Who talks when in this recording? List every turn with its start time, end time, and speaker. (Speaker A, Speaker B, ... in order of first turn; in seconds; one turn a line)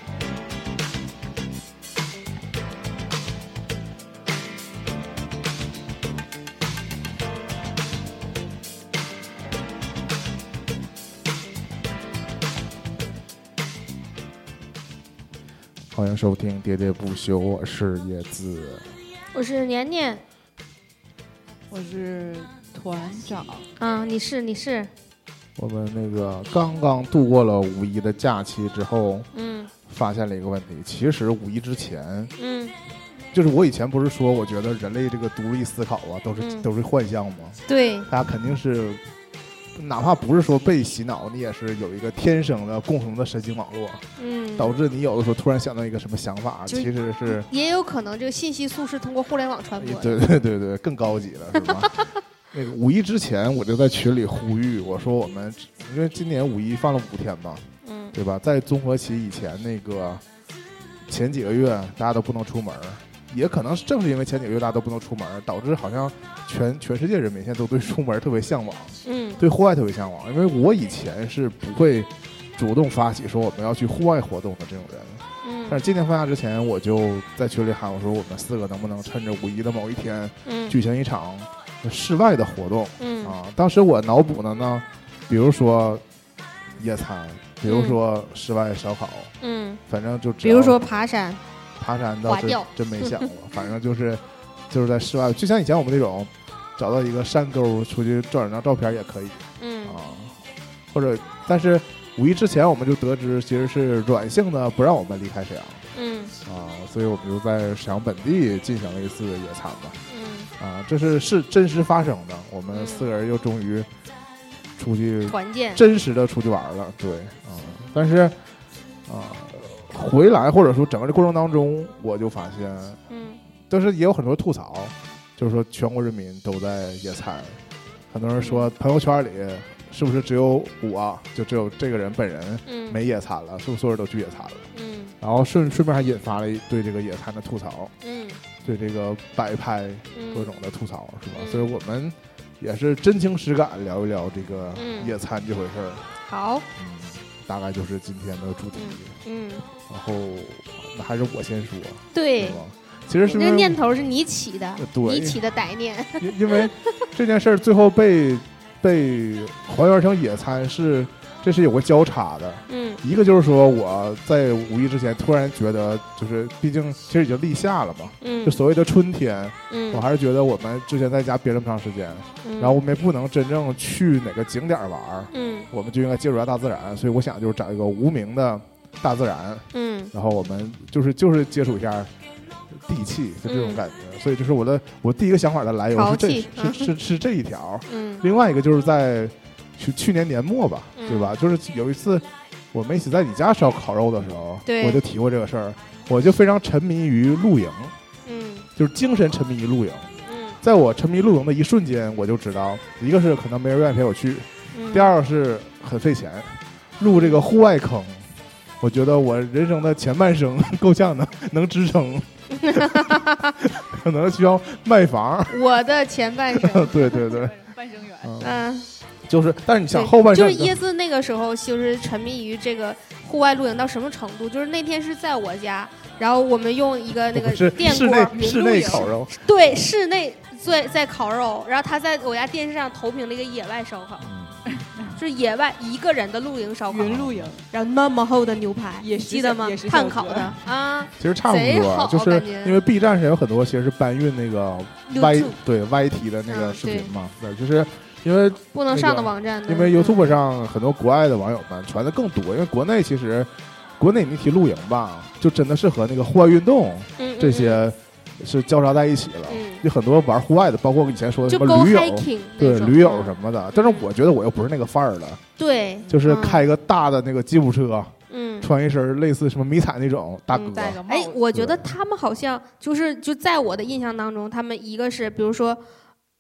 Speaker A: 15.9-18.9
Speaker B: 19.3-20.2
Speaker C: 21.7-23.7
Speaker B: 23.8-24.9
Speaker A: 25.6-29.3
Speaker B: 29.3-29.7
Speaker A: 29.9-32.3
Speaker B: 32.4-32.8
Speaker A: 33.3-39.0
Speaker B: 36.4-36.7
Speaker B: 37.7-38.1
Speaker A: 39.8-44.0
Speaker B: 44.2-44.8
Speaker A: 44.6-47.5
Speaker B: 46.7-50.3
Speaker A: 49.8-52.0
Speaker B: 51.6-52.0
Speaker A: 52.5-60.2
Speaker B: 57.8-58.1
Speaker A: 61.1-86.0
Speaker B: 69.0-69.4
Speaker B: 75.4-75.8
Speaker B: 80.5-80.8
Speaker B: 83.0-83.3
Speaker A: 86.8-89.3
Speaker B: 87.7-88.0
Speaker B: 89.4-89.8
Speaker A: 89.9-90.8
Speaker B: 90.4-91.4
Speaker A: 91.8-100.4
Speaker B: 92.2-93.3
Speaker B: 99.6-100.0
Speaker A: 100.9-105.8
Speaker B: 105.9-106.3
Speaker A: 106.5-110.0
Speaker B: 110.1-110.5
Speaker A: 110.6-113.9
Speaker B: 112.7-113.1
Speaker A: 114.8-118.4
Speaker B: 115.3-115.8
Speaker A: 119.1-123.0
Speaker B: 123.1-123.4
Speaker A: 123.7-127.6
Speaker A: 128.1-134.7
Speaker B: 128.4-128.7
Speaker B: 132.7-133.0
Speaker B: 134.7-135.1
Speaker A: 135.2-137.9
Speaker B: 138.0-138.4
Speaker A: 138.6-146.1
Speaker B: 140.1-140.5
Speaker B: 141.4-141.7
Speaker B: 144.8-145.2
Speaker B: 146.3-146.7
Speaker A: 146.8-149.2
Speaker B: 148.7-149.7
Speaker A: 149.9-153.8
Speaker B: 152.1-152.6
Speaker B: 153.2-156.7
Speaker A: 154.8-155.4
Speaker A: 156.2-182.1
Speaker B: 162.7-163.0
Speaker B: 168.2-168.6
Speaker B: 169.7-170.1
Speaker B: 172.4-172.8
Speaker B: 175.3-175.7
Speaker B: 179.7-180.1
Speaker A: 182.8-197.9
Speaker B: 183.5-183.8
Speaker B: 185.9-186.9
Speaker B: 187.9-188.2
Speaker B: 191.0-191.4
Speaker B: 194.7-195.0
Speaker B: 198.3-198.7
Speaker A: 198.8-208.2
Speaker B: 200.2-200.6
Speaker B: 204.7-205.2
Speaker B: 207.1-207.4
Speaker A: 208.8-215.7
Speaker B: 212.5-213.6
Speaker B: 215.5-217.3
Speaker A: 216.5-217.6
Speaker C: 216.9-218.4
Speaker A: 218.2-218.6
Speaker B: 218.4-218.9
Speaker A: 219.3-220.8
Speaker B: 219.9-234.3
Speaker A: 227.3-229.5
Speaker C: 228.3-229.1
Speaker A: 234.2-234.7
Speaker C: 234.7-235.1
Speaker B: 235.1-237.2
Speaker C: 236.9-237.7
Speaker A: 237.0-237.5
Speaker B: 237.7-242.8
Speaker C: 239.0-240.6
Speaker A: 241.2-265.4
Speaker B: 245.1-245.6
Speaker B: 246.5-247.1
Speaker B: 248.7-250.3
Speaker B: 257.2-257.8
Speaker B: 259.5-259.8
Speaker B: 261.5-264.1
Speaker B: 265.6-266.6
Speaker A: 266.1-271.0
Speaker B: 268.3-268.7
Speaker B: 270.5-275.8
Speaker C: 270.7-271.4
Speaker A: 271.5-271.9